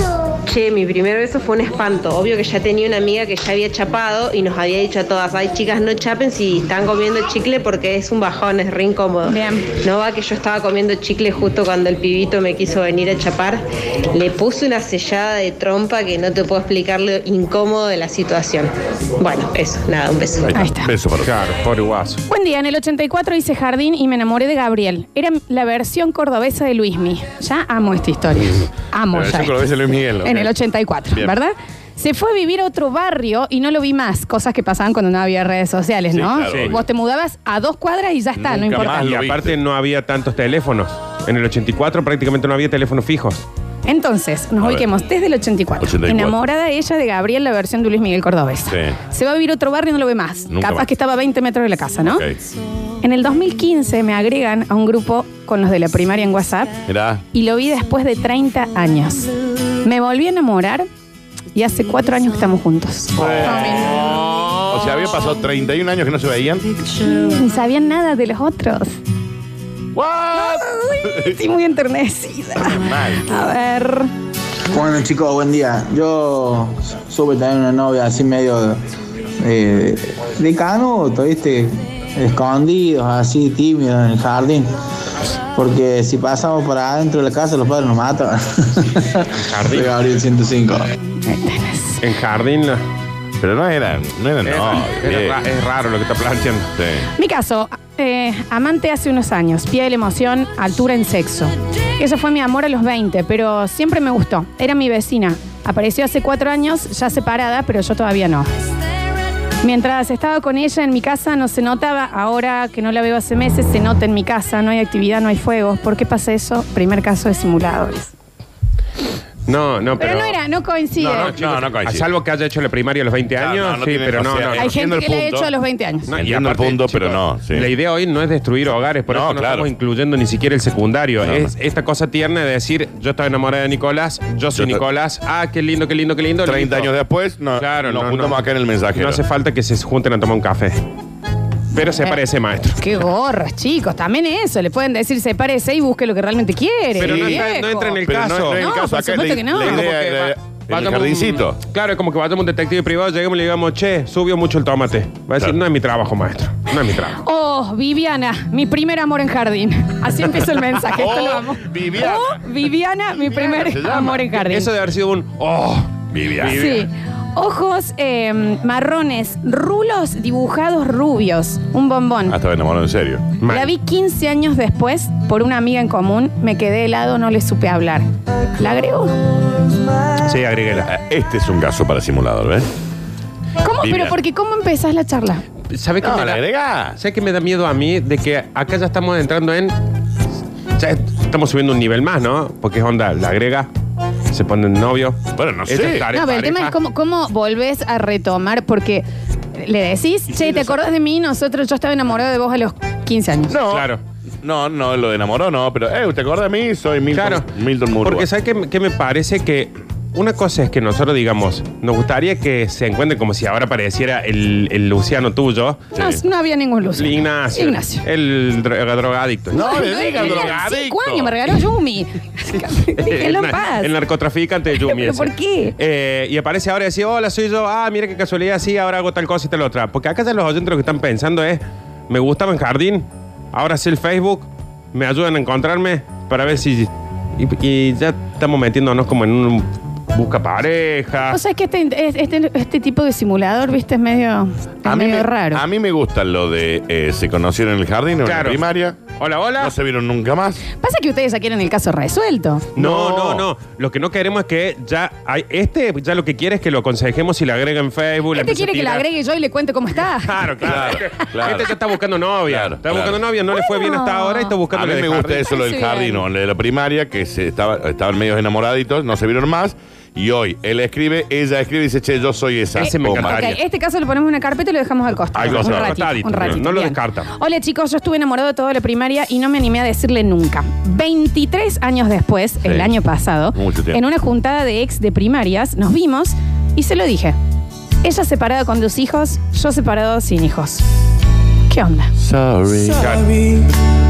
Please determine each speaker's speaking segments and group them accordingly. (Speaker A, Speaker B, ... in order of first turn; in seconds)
Speaker A: 0.5-20.5
Speaker B: 9.2-9.7, 20.5-20.9, 22.3-29.6, 30.2-39.1, 43.9-52.2, 53.0-56.8, 57.3-59.3, 59.8-60.9, 61.5-64.0, 66.9-69.0, 70.3-74.1, 91.2-92.0, 97.2-108.5, 109.6-118.1, 120.0-121.3, 124.5-126.1, 141.8-142.2, 142.8-148.0, 148.5-149.9, 157.2-164.7, 166.4-172.3, 173.5-178.1, 178.6-179.1, 183.6-185.4, 196.1-203.6, 215.9-218.0, 219.5-223.9, 224.8-225.7, 241.3-245.6, 250.8-252.7, 258.3-261.2, 263.5-264.6, 265.5-266.2, 272.8-287.4, 288.0-290.8, 291.7-292.1
Speaker C: 20.4-21.3, 29.1-30.5, 31.1-31.3, 36.1-36.9, 38.4-39.6, 44.6-44.9, 45.8-46.4, 48.7-49.0, 50.5-50.9, 52.0-52.4, 56.9-57.2, 63.2-66.7, 69.9-71.4, 72.6-73.5, 93.4-95.4, 96.8-97.1, 121.0-122.1, 123.4-125.5, 126.1-127.7, 129.1-129.7, 131.2-131.5, 134.5-134.8, 136.4-139.2, 147.0-147.5, 148.0-151.6, 160.9-162.5, 163.1-164.3, 166.1-166.7, 172.3-173.3, 180.8-182.7, 186.0-187.0, 195.3-196.1, 200.3-200.8, 203.5-203.9, 204.4-208.3, 215.9-216.2, 219.5-221.3, 244.8-250.6, 252.8-253.5, 260.6-261.7, 262.4-263.2, 264.7-273.6, 275.3-276.6, 282.6-282.9, 283.5-284.0, 292.2-293.2
Speaker D: 21.2-22.2, 36.5-36.8, 38.7-43.4, 63.2-65.0, 89.3-89.9, 92.0-92.8, 94.4-96.7, 119.5-120.3, 121.0-124.7, 126.1-136.9, 137.6-138.4, 138.9-140.8, 141.7-142.8, 147.0-148.6, 149.6-157.2, 164.3-166.8, 173.4-173.7, 180.2-180.9, 185.7-186.4, 186.9-189.7, 190.8-193.7, 194.3-196.7, 203.7-204.0, 207.1-207.5, 208.0-215.9, 217.0-220.6, 223.0-241.4, 248.2-248.6, 249.1-249.7, 252.8-259.1, 260.1-265.5, 272.8-273.6, 275.4-277.3, 293.0-293.4
Speaker E: 74.7-78.8, 79.4-84.7, 85.5-90.8